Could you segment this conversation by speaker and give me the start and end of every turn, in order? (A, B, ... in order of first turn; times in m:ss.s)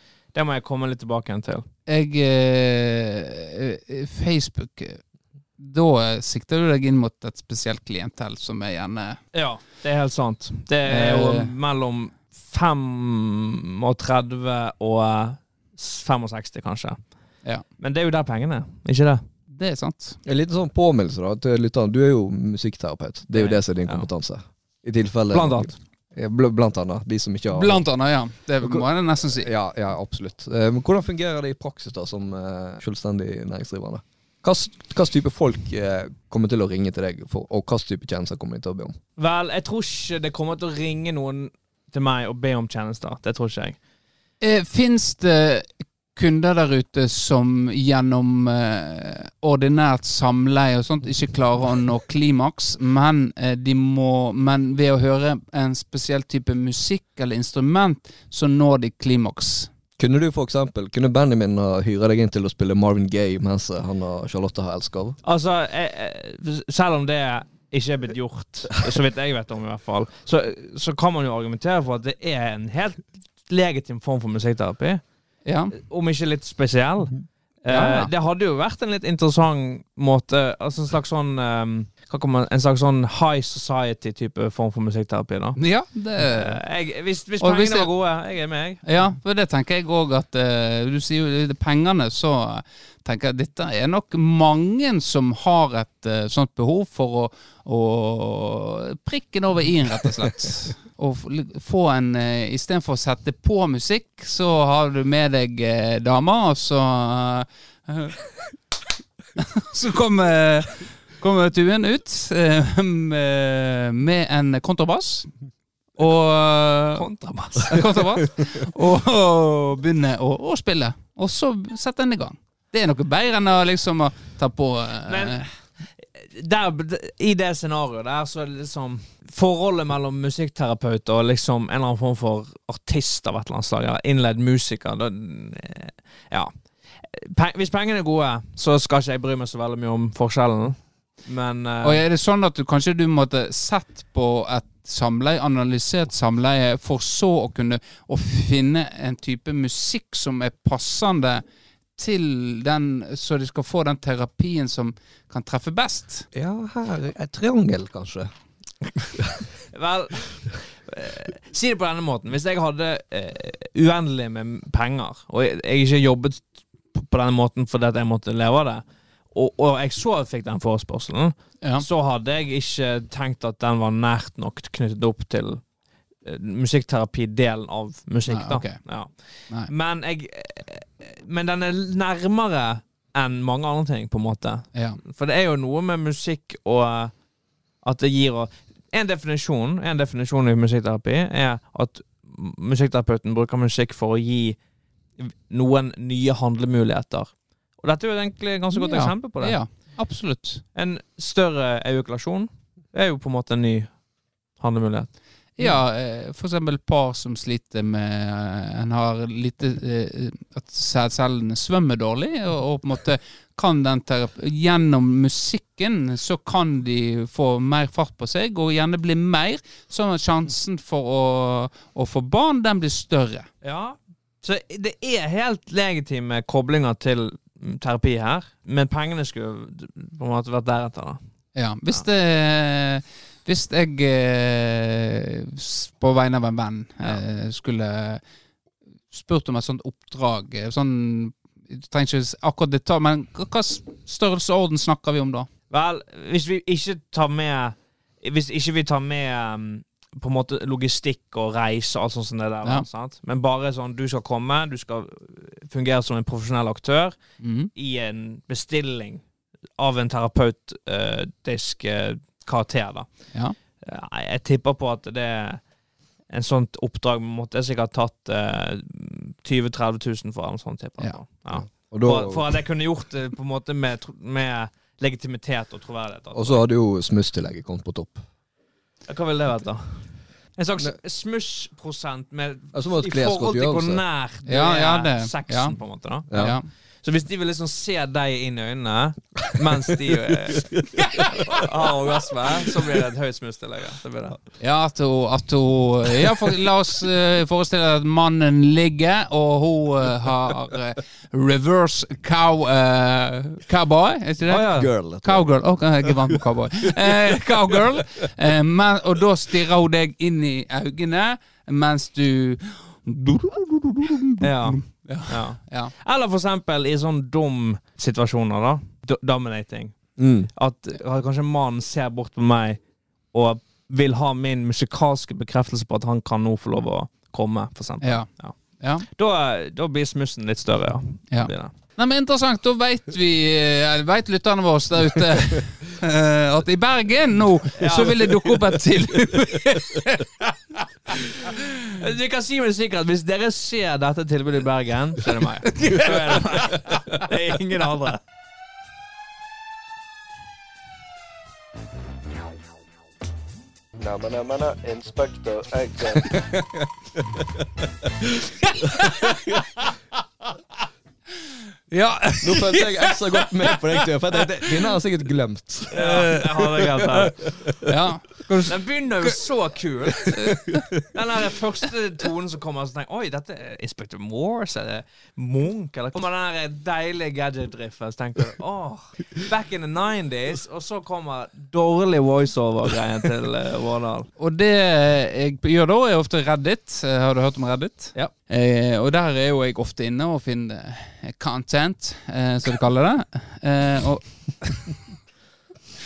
0:00.3-0:01.7 A
0:01.9-0:05.0 B
0:05.6-0:09.2 B
0:09.3-0:19.2 A
0:10.9-0:11.5 B
0:19.5-0:20.2 B
0:20.2-0:27.9 C
0:23.3-0:24.1 A
0:25.3-0:25.8 A
0:27.5-0:29.5 B
0:28.6-0:39.0 C
0:39.2-0:43.8 A
0:44.4-0:59.7 B
1:00.0-1:05.2 C
1:05.2-1:15.0 A
1:15.4-1:15.7 B
1:15.7-1:28.8 A
1:17.7-1:18.1 B
1:25.6-1:26.6 B
1:27.4-1:27.9 B
1:28.8-1:48.2 B
1:49.4-1:55.3 B
1:56.0-1:57.0 B
1:57.0-1:58.0 A
1:57.6-2:05.5 B
2:05.1-2:22.0 A
2:21.8-2:31.4 B
2:32.0-2:36.3 B
2:36.3-2:38.3 C
2:39.7-2:55.7 A
2:56.2-3:07.2 A
2:58.3-2:59.7 B
3:04.7-3:05.0 B
3:07.8-3:14.6 A
3:15.2-3:20.0 A
3:18.7-3:20.6 B
3:20.8-3:24.0 A
3:24.6-3:25.8 A
3:25.6-3:43.5 B
3:43.6-3:51.2 A
3:51.6-3:58.2 B
3:59.1-4:05.5 B
4:05.7-4:25.7 A
4:17.4-4:17.7 B
4:26.3-4:36.6 A
4:31.5-4:32.6 C
4:36.3-4:38.2 C
4:39.1-4:50.9 A
4:42.7-4:44.0 C
4:44.5-4:45.8 B
4:46.3-4:46.6 C
4:46.3-4:46.7 B
4:51.6-4:54.5 A
4:54.6-5:15.9 B
5:04.5-5:04.9 A
5:04.7-5:07.1 C
5:14.4-5:31.7 A
5:20.2-5:20.5 C
5:28.0-5:29.0 B
5:31.3-5:40.4 B
5:37.8-5:38.6 A
5:41.5-5:48.2 A
5:45.7-5:47.2 B
5:54.0-5:58.5 C
5:59.1-5:59.6 C
6:01.9-6:04.4 B
6:02.4-6:06.0 C
6:05.9-6:07.5 A
6:05.9-6:06.3 B
6:07.4-6:07.7 C
6:07.8-6:09.4 B
6:08.7-6:24.3 A
6:10.4-6:10.8 B
6:24.4-6:35.0 B